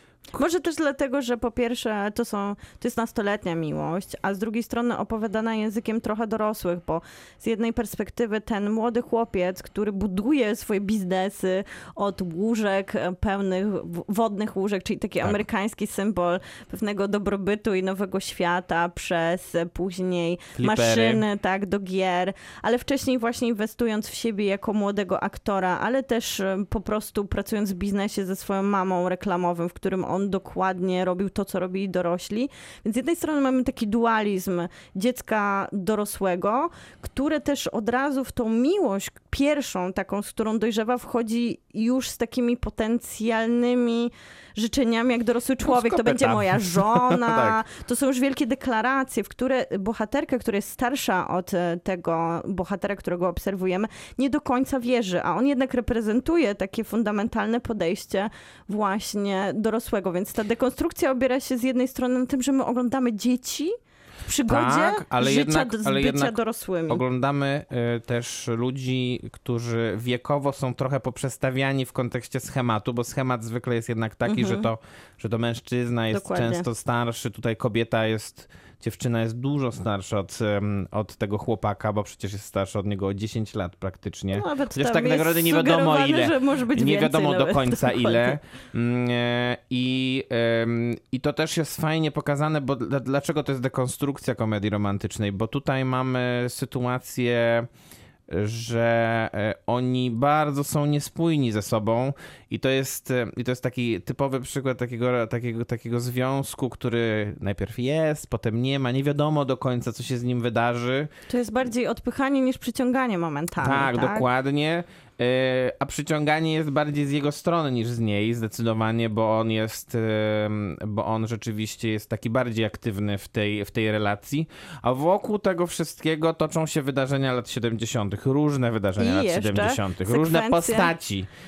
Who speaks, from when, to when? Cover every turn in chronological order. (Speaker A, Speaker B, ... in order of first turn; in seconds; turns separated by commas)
Speaker A: 0.3-67.0, Speaker B: 20.6-21.2, Speaker B: 45.6-47.6, Speaker B: 64.5-97.7, Speaker A: 74.2-74.7, Speaker A: 76.1-76.7, Speaker A: 84.3-88.4, Speaker B: 98.3-111.1, Speaker A: 111.3-114.2, Speaker B: 113.6-131.3, Speaker A: 129.0-130.9